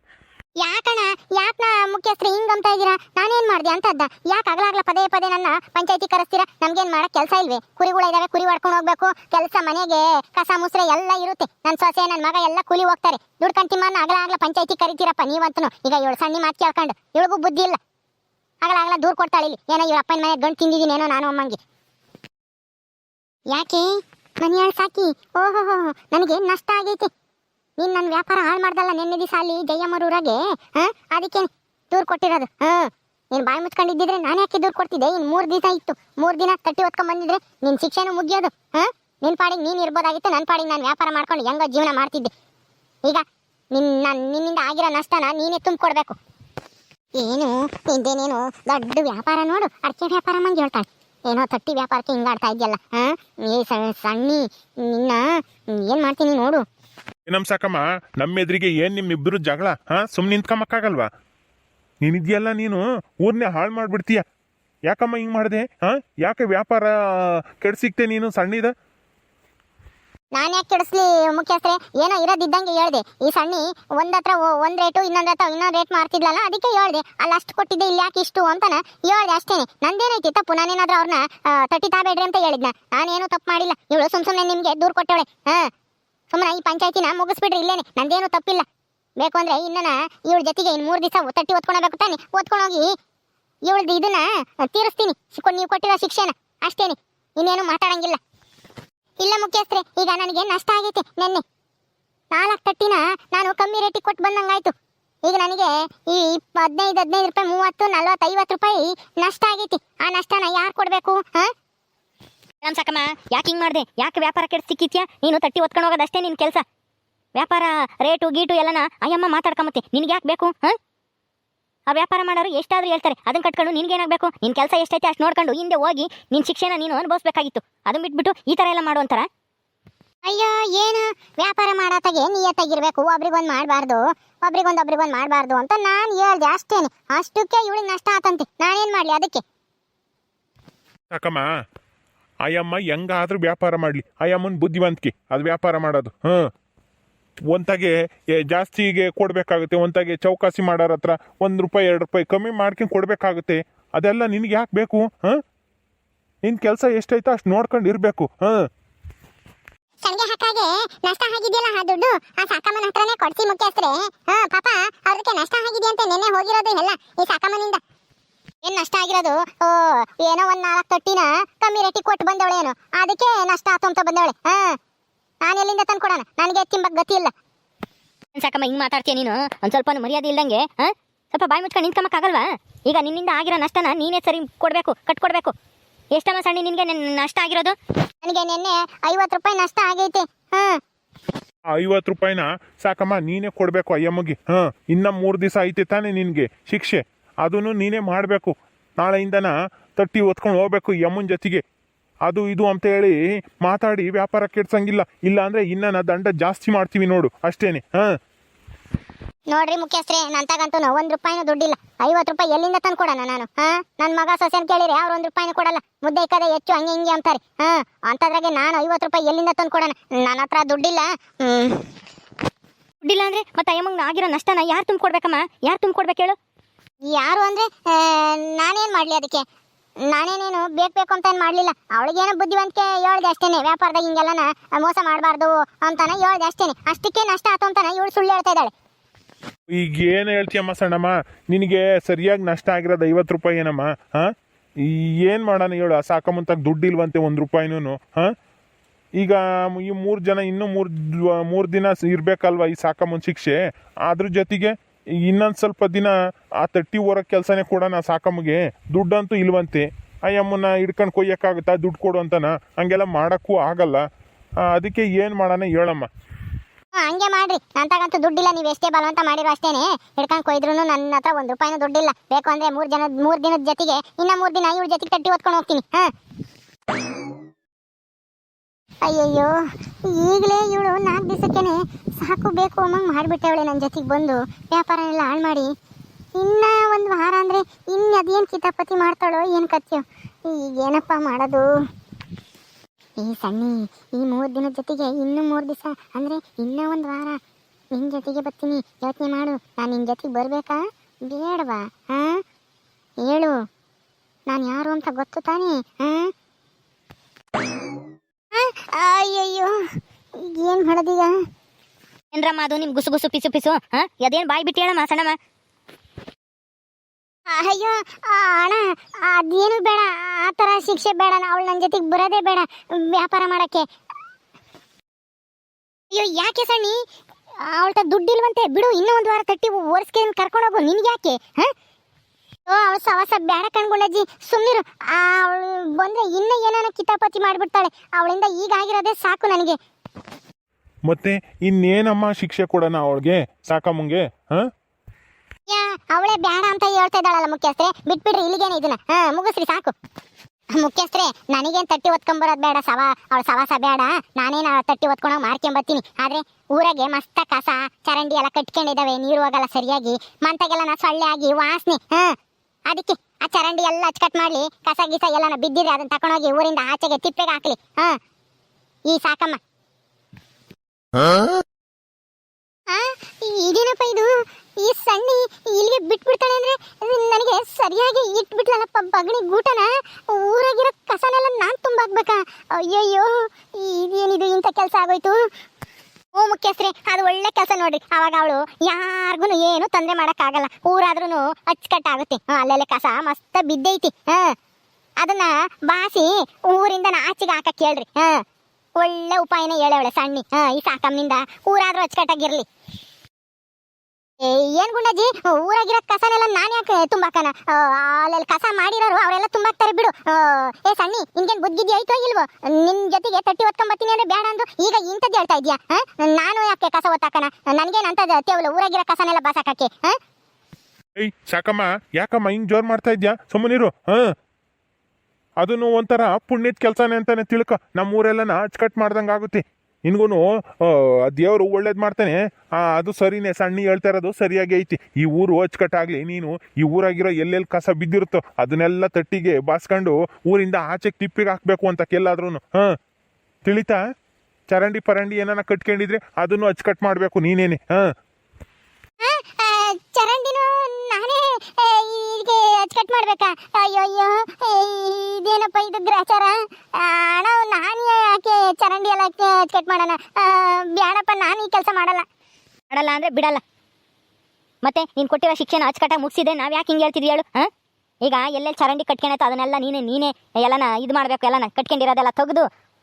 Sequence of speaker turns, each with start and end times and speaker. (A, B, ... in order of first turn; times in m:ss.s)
0:00.6-0:17.8 A
0:18.6-0:21.6 A
0:23.5-0:23.9 A
0:24.4-0:27.1 A
0:27.8-0:42.3 A
0:43.0-0:46.2 A
0:47.1-0:56.6 A
0:57.3-1:01.1 B
1:02.0-1:04.2 B
1:04.9-1:08.7 B
1:10.3-1:25.7 A
1:26.3-1:28.6 A
1:29.2-1:32.9 A
1:33.7-1:38.2 A
1:39.2-1:41.4 A
1:42.3-1:44.7 A
1:45.2-1:51.5 A
1:52.6-1:56.6 C
1:57.3-2:00.8 C
2:01.9-2:09.3 C
2:10.2-2:19.4 A
2:21.1-2:21.4 B
2:22.4-2:26.4 B
2:27.5-2:35.4 B
2:36.4-2:38.6 B
2:40.0-2:47.8 A
2:48.6-2:54.8 A
2:55.4-2:57.3 A
2:58.3-3:05.5 C
3:06.1-3:07.7 C
3:08.2-3:10.8 A
3:11.7-3:21.6 B
3:22.2-3:28.0 B
3:29.5-3:41.8 A
3:43.0-3:46.4 C
3:47.1-3:49.4 A
3:50.1-3:58.7 A
3:59.7-4:04.3 B
4:04.8-4:08.3 B
4:09.2-4:13.6 B
4:14.1-4:14.7 B
4:15.2-4:24.0 B
4:24.7-4:26.1 B
4:27.0-4:36.1 A
4:39.0-4:39.5 A
4:40.0-4:45.7 A
4:46.3-4:51.6 A
4:53.2-4:57.4 A
4:57.9-5:02.4 A
5:03.2-5:03.5 A
5:04.5-5:06.3 A
5:08.5-5:09.7 A
5:10.4-5:11.3 A
5:12.3-5:15.4 C
5:17.5-5:23.8 A
5:26.1-5:27.0 A
5:27.6-5:31.7 A
5:32.7-5:39.8 A
5:41.0-5:44.7 B
5:45.7-5:49.9 A
5:50.7-6:02.3 A
6:02.9-6:08.2 A
6:09.1-6:09.6 A
6:12.9-6:25.4 A
6:26.3-6:34.5 A
6:35.2-6:38.4 A
6:39.0-6:42.6 A
6:44.4-7:00.2 A
7:01.2-7:04.2 B
7:05.6-7:22.8 B
7:23.6-7:24.0 B
7:24.7-7:28.0 B
7:29.2-7:42.2 A
7:42.9-7:43.6 C
7:44.8-7:47.7 C
7:48.2-7:52.7 C